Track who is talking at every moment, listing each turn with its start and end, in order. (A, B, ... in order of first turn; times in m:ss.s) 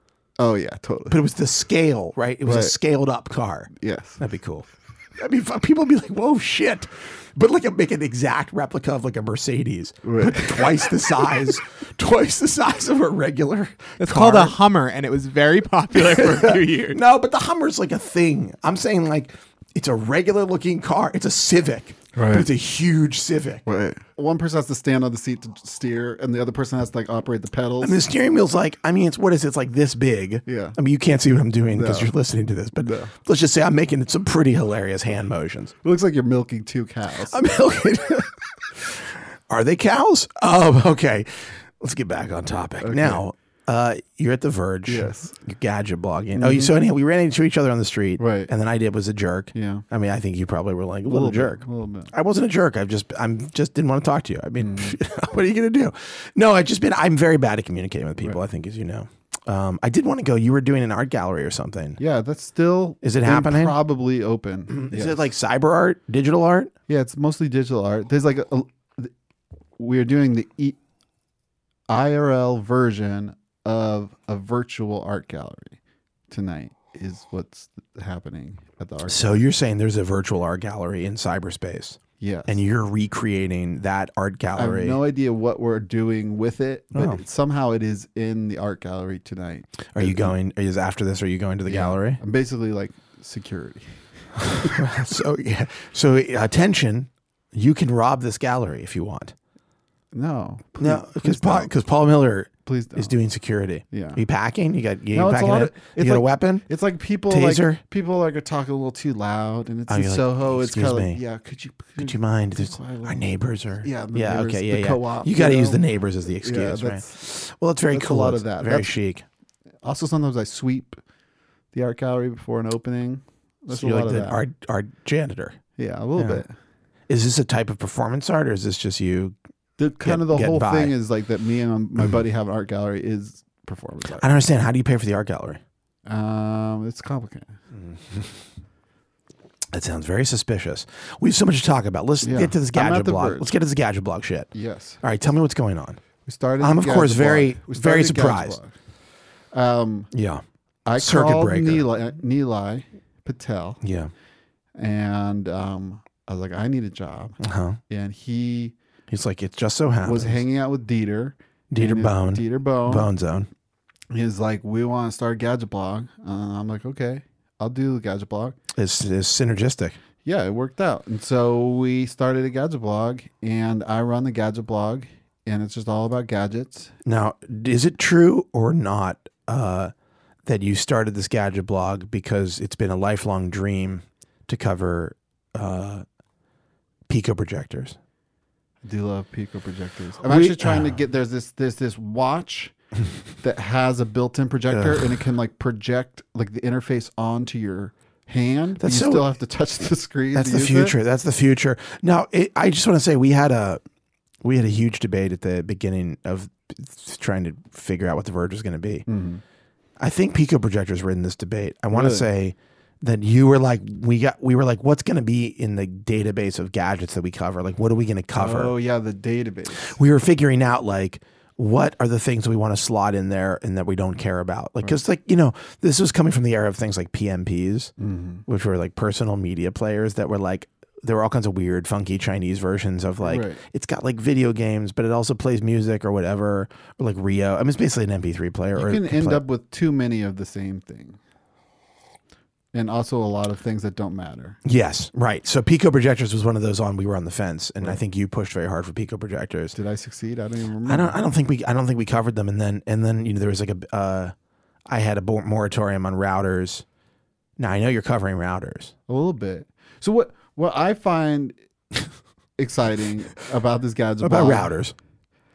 0:00.4-0:01.2 A
0:01.1-0:14.6 B
0:02.4-0:02.7 A
0:03.7-0:04.2 A
0:10.0-0:10.9 A
0:14.0-0:17.0 C
0:15.9-0:23.6 B
0:22.1-0:22.5 A
0:23.6-0:28.0 A
0:27.8-0:35.7 B
0:30.4-0:30.8 A
0:31.7-0:32.1 A
0:32.8-0:33.1 A
0:35.8-0:37.5 A
0:37.3-1:02.0 B
0:42.8-0:43.2 A
0:44.8-0:45.4 A
0:46.4-0:46.7 A
0:48.2-0:48.5 A
0:49.5-0:49.8 A
0:51.0-0:52.1 A
0:54.6-0:55.0 A
1:02.0-1:05.2 A
1:03.0-1:03.8 B
1:04.7-1:06.7 B
1:06.9-1:09.1 A
1:09.8-1:10.8 A
1:11.9-1:15.8 A
1:16.3-1:19.2 A
1:19.1-1:25.0 B
1:22.2-1:22.6 A
1:24.5-1:30.3 A
1:26.9-1:27.2 B
1:29.9-1:32.2 B
1:31.6-1:34.0 A
1:34.4-1:39.3 B
1:40.1-1:41.7 A
1:40.8-1:46.6 B
1:42.6-1:43.1 A
1:43.9-1:44.2 A
1:45.1-1:53.2 A
1:47.3-1:47.8 B
1:49.9-1:51.2 B
1:52.0-1:59.2 B
1:53.8-1:57.2 A
1:57.9-1:58.9 A
1:59.8-2:01.0 A
2:01.7-2:04.4 A
2:03.7-2:05.6 B
2:05.8-2:06.5 A
2:06.2-2:06.4 B
2:07.1-2:09.4 B
2:09.8-2:14.3 A
2:10.0-2:10.9 B
2:14.2-2:15.6 B
2:16.1-2:17.5 A
2:17.7-2:18.3 B
2:19.7-2:24.5 B
2:22.2-2:23.5 A
2:24.5-2:25.0 A
2:25.0-2:26.0 B
2:26.2-2:28.7 A
2:26.6-2:28.6 B
2:29.5-2:30.1 A
2:30.1-2:30.4 B
2:30.8-2:33.8 A
2:31.0-2:31.9 B
2:33.8-2:34.1 B
2:34.8-2:37.4 A
2:37.4-2:37.8 B
2:37.9-2:38.7 A
2:39.1-2:40.4 B
2:40.0-2:43.1 A
2:41.7-2:43.5 B
2:44.1-2:48.6 A
2:48.7-2:50.0 B
2:50.2-2:56.9 A
2:57.0-2:59.9 B
3:00.4-3:06.0 B
3:07.1-3:08.0 B
3:08.8-3:12.7 A
3:10.2-3:11.0 B
3:13.4-3:20.9 A
3:14.7-3:15.2 B
3:18.8-3:19.3 B
3:20.3-3:23.8 B
3:24.4-3:29.0 B
3:29.1-3:29.4 A
3:30.0-3:38.8 B
3:31.9-3:32.3 A
3:38.3-3:40.0 A
3:39.8-3:47.9 B
3:48.0-3:48.4 A
3:48.5-3:59.4 B
3:53.2-3:53.6 A
3:58.7-4:01.2 A
4:02.7-4:04.6 A
4:04.6-4:09.8 B
4:09.7-4:11.2 A
4:10.8-4:14.3 B
4:14.9-4:16.8 B
4:17.6-4:18.9 B
4:19.1-4:21.6 A
4:22.6-4:24.7 A
4:24.2-4:24.9 B